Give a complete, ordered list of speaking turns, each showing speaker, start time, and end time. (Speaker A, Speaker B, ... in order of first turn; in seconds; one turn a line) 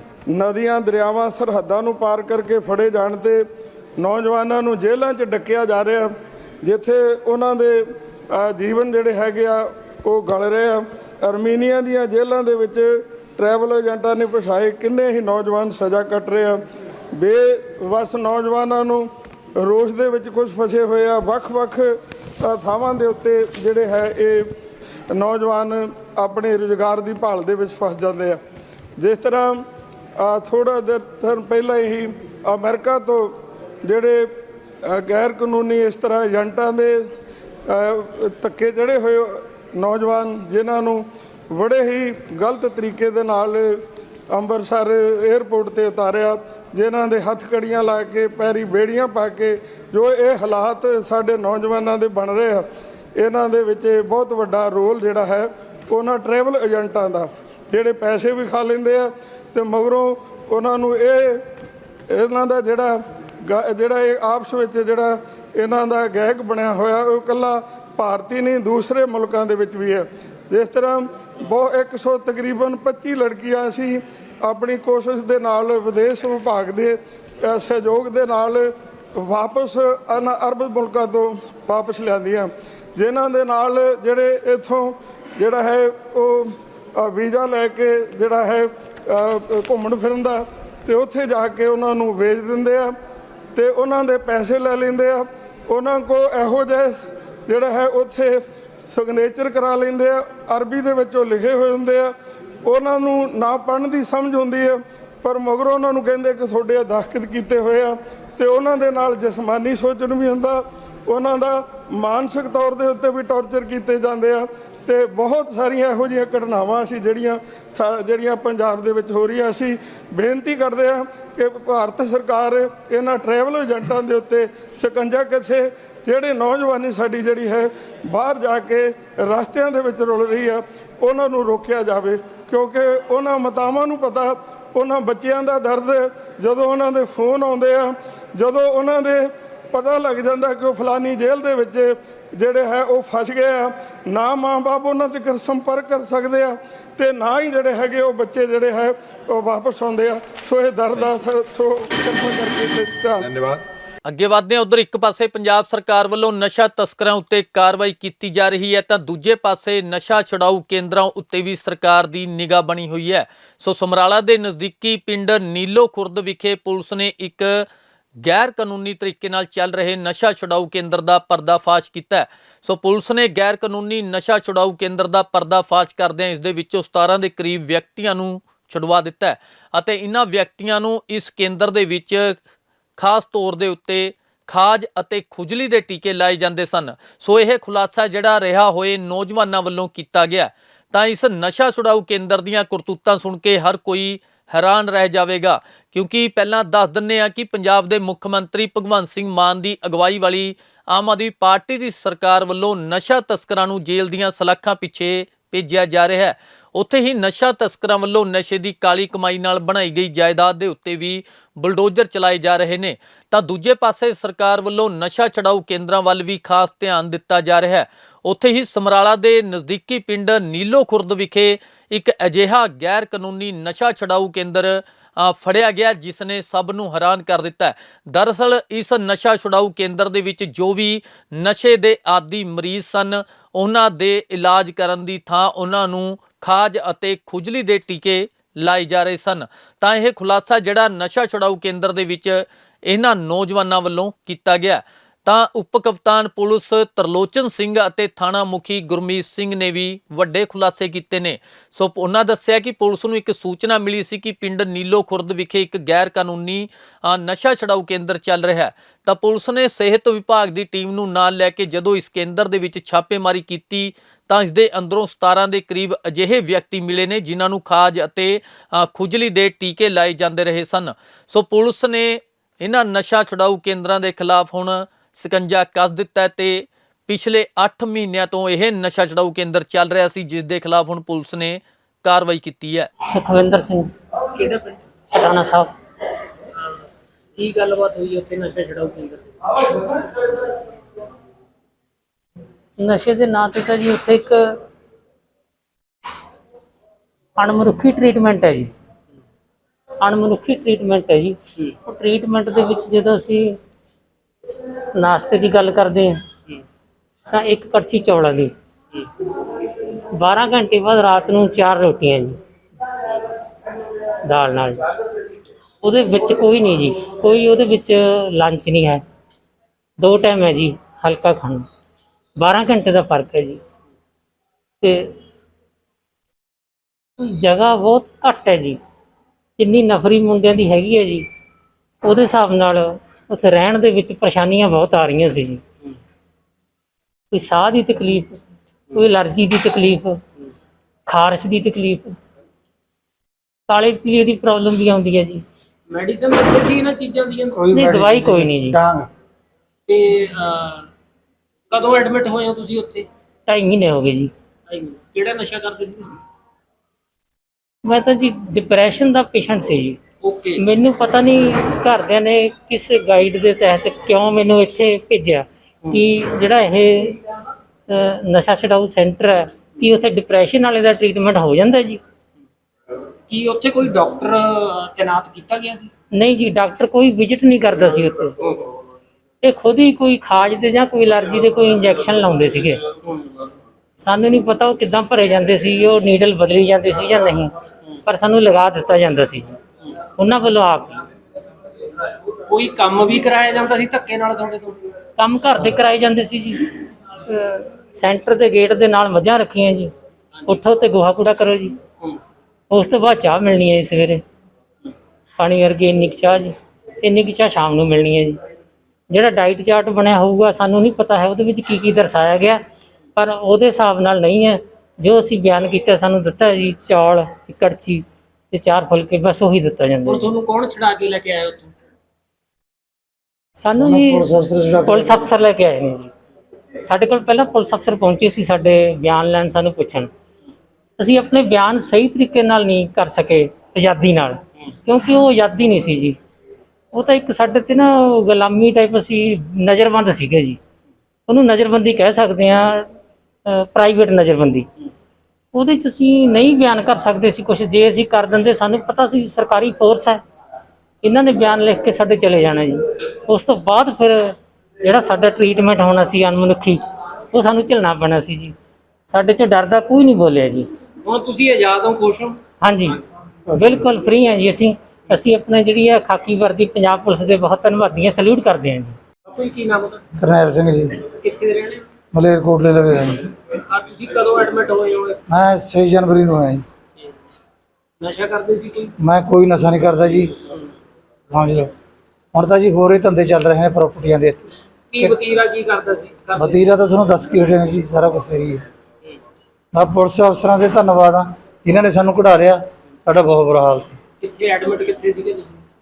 Speaker A: 0.3-3.5
Speaker A: 4.0-16.6
Speaker A: 17.1-19.1
Speaker A: 19.6-24.5
Speaker A: 25.1-28.4
Speaker A: 29.0-29.6
Speaker A: 30.2-34.3
Speaker A: 34.9-37.1
Speaker A: 37.7-61.5
Speaker A: 62.1-92.9
Speaker A: 93.5-153.3
Speaker B: 154.1-167.7
Speaker B: 168.2-182.4
Speaker B: 183.0-282.9
Speaker C: 283.1-283.9
Speaker D: 284.4-284.8
Speaker C: 285.1-285.7
Speaker D: 287.4-289.5
Speaker C: 292.8-294.6
Speaker C: 297.4-298.7
Speaker C: 300.0-303.6
Speaker C: 305.0-306.2
Speaker C: 307.3-308.5
Speaker C: 310.2-312.4
Speaker C: 314.3-314.8
Speaker C: 315.8-319.0
Speaker C: 320.0-321.7
Speaker C: 322.4-323.6
Speaker C: 324.8-325.1
Speaker C: 327.2-328.8
Speaker C: 329.6-331.3
Speaker C: 332.0-335.6
Speaker C: 337.3-338.4
Speaker C: 338.9-340.2
Speaker C: 341.1-342.2
Speaker C: 343.7-345.4
Speaker D: 345.9-347.7
Speaker E: 347.6-349.1
Speaker C: 347.7-348.8
Speaker D: 349.9-350.9
Speaker D: 351.7-353.1
Speaker C: 353.5-354.3
Speaker D: 354.7-356.2
Speaker C: 357.9-360.0
Speaker D: 360.2-360.7
Speaker C: 360.6-367.2
Speaker C: 367.9-372.0
Speaker D: 373.3-375.9
Speaker C: 376.2-378.3
Speaker C: 379.4-382.8
Speaker C: 384.0-387.5
Speaker C: 388.1-389.6
Speaker C: 390.2-391.0
Speaker D: 392.4-394.8
Speaker C: 395.2-396.7
Speaker C: 397.3-399.9
Speaker C: 400.5-401.8
Speaker C: 402.7-404.2
Speaker C: 405.4-408.4
Speaker C: 409.1-412.6
Speaker C: 413.2-420.2
Speaker D: 420.1-421.7
Speaker C: 423.6-426.1
Speaker E: 423.7-425.3
Speaker C: 426.8-430.1
Speaker C: 431.0-436.2
Speaker C: 436.9-440.6
Speaker C: 441.3-442.9
Speaker C: 443.5-444.7
Speaker C: 445.5-450.2
Speaker C: 451.0-458.6
Speaker C: 459.1-460.7
Speaker D: 461.1-462.4
Speaker C: 462.6-462.9
Speaker E: 463.5-463.8
Speaker C: 463.6-469.0
Speaker D: 469.3-470.0
Speaker E: 470.2-471.0
Speaker D: 471.2-471.8
Speaker E: 472.1-473.3
Speaker D: 473.7-475.2
Speaker E: 475.3-476.6
Speaker D: 478.0-478.9
Speaker E: 479.0-480.4
Speaker E: 481.3-481.7
Speaker E: 482.3-485.1
Speaker D: 484.9-486.7
Speaker E: 486.4-488.7
Speaker E: 489.7-494.0
Speaker D: 494.2-495.6